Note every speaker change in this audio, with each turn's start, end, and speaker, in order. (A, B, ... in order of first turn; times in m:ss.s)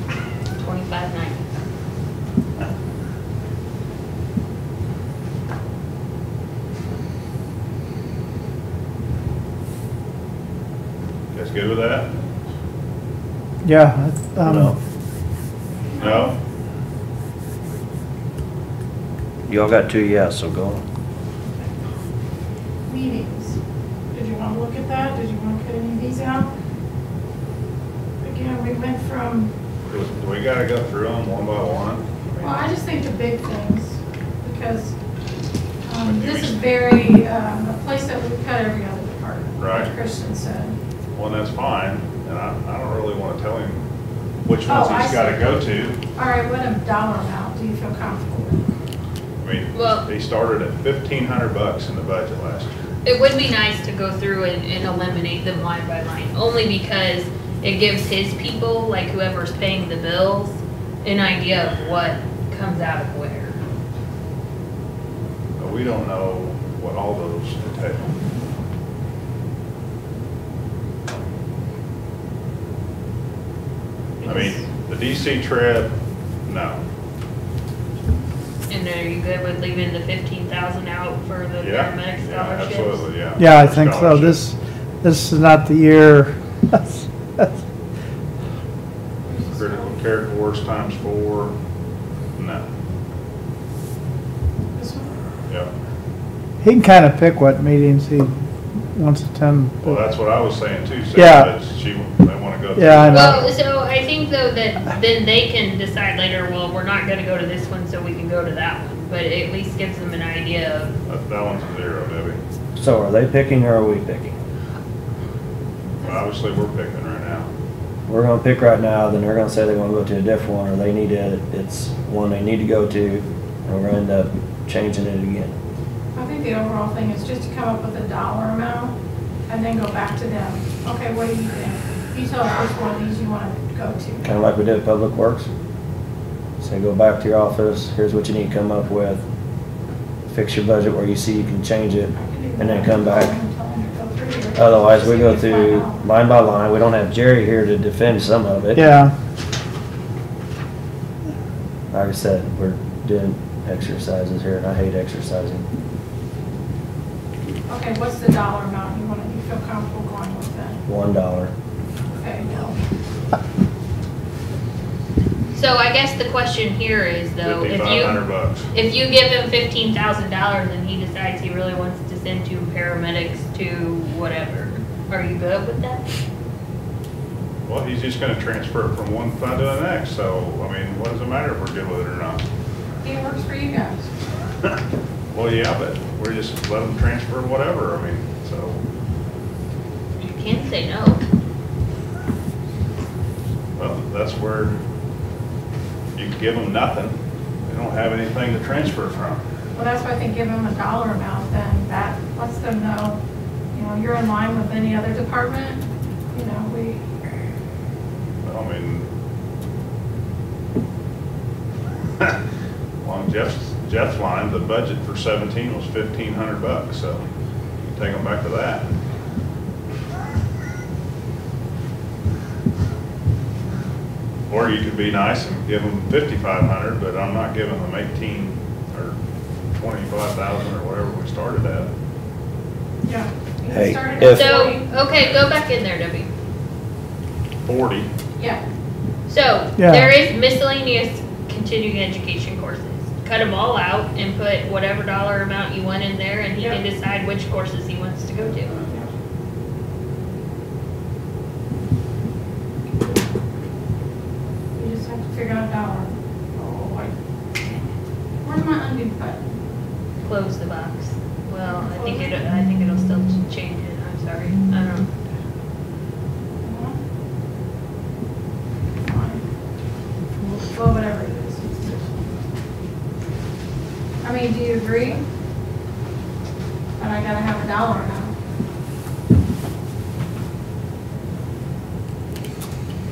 0:00.6-0:01.4 A
0:11.3-0:12.1 B
0:13.6-0:14.7 C
0:14.4-0:14.7 D
0:15.9-0:16.3 E
0:16.0-0:16.3 B
0:19.5-0:20.8 D
0:22.8-0:23.6 E
0:24.1-0:26.5 E
0:28.2-0:29.5 E
0:29.9-0:32.6 B
0:32.4-0:34.9 E
0:35.8-0:40.8 E
0:36.0-0:36.8 B
0:39.6-0:39.9 B
0:41.1-0:43.8 B
0:44.4-0:46.0 B
0:44.6-0:45.6 E
0:46.1-0:48.6 E
0:49.4-0:52.7 B
0:49.7-0:50.0 A
0:53.0-1:03.6 A
1:05.6-1:08.2 B
1:14.2-1:14.6 E
1:14.2-1:15.9 B
1:16.4-1:16.8 B
1:18.7-1:23.1 A
1:21.6-1:24.4 B
1:23.4-1:27.6 C
1:29.2-1:30.0 E
1:29.5-1:31.5 B
1:32.4-1:32.6 B
1:34.7-1:35.1 E
1:36.6-1:38.4 C
1:38.9-1:40.0 C
1:39.8-1:43.6 B
1:41.1-1:41.5 C
1:42.8-1:43.4 C
1:43.1-1:50.9 A
1:51.0-1:52.4 B
1:52.8-1:54.4 D
1:56.0-1:57.5 B
1:58.1-2:05.5 D
2:06.1-2:08.9 E
2:09.5-2:14.3 E
2:14.2-2:15.5 D
2:16.6-2:19.2 D
2:20.2-2:23.3 D
2:22.1-2:26.0 E
2:24.6-2:28.8 D
2:28.7-2:29.1 C
2:31.9-2:35.7 D
2:37.7-2:40.8 E
2:40.8-2:41.5 D
2:42.1-2:42.7 E
2:45.5-2:56.0 A
2:47.4-2:48.7 B
2:57.6-3:02.4 B
3:03.0-3:04.1 E
3:05.3-3:08.8 B
3:10.2-3:11.2 A
3:13.8-3:14.8 B
3:16.1-3:17.2 B
3:17.7-3:19.4 B
3:19.7-3:23.2 E
3:23.7-3:27.0 E
3:28.4-3:29.1 B
3:33.0-3:37.2 B
3:37.8-3:38.9 B
3:44.5-3:49.2 B
3:49.8-3:51.9 B
3:53.0-3:54.9 E
3:53.7-3:54.7 D
3:54.2-3:56.3 A
3:57.6-3:58.1 B
3:58.4-3:58.6 E
3:59.3-4:08.8 A
3:59.8-4:00.1 C
4:08.8-4:09.1 E
4:14.7-4:17.1 E
4:18.4-4:19.6 E
4:20.2-4:25.1 A
4:21.6-4:22.3 E
4:26.6-4:27.0 E
4:29.0-4:29.4 E
4:30.7-4:31.9 E
4:34.2-4:35.2 E
4:37.0-4:38.3 E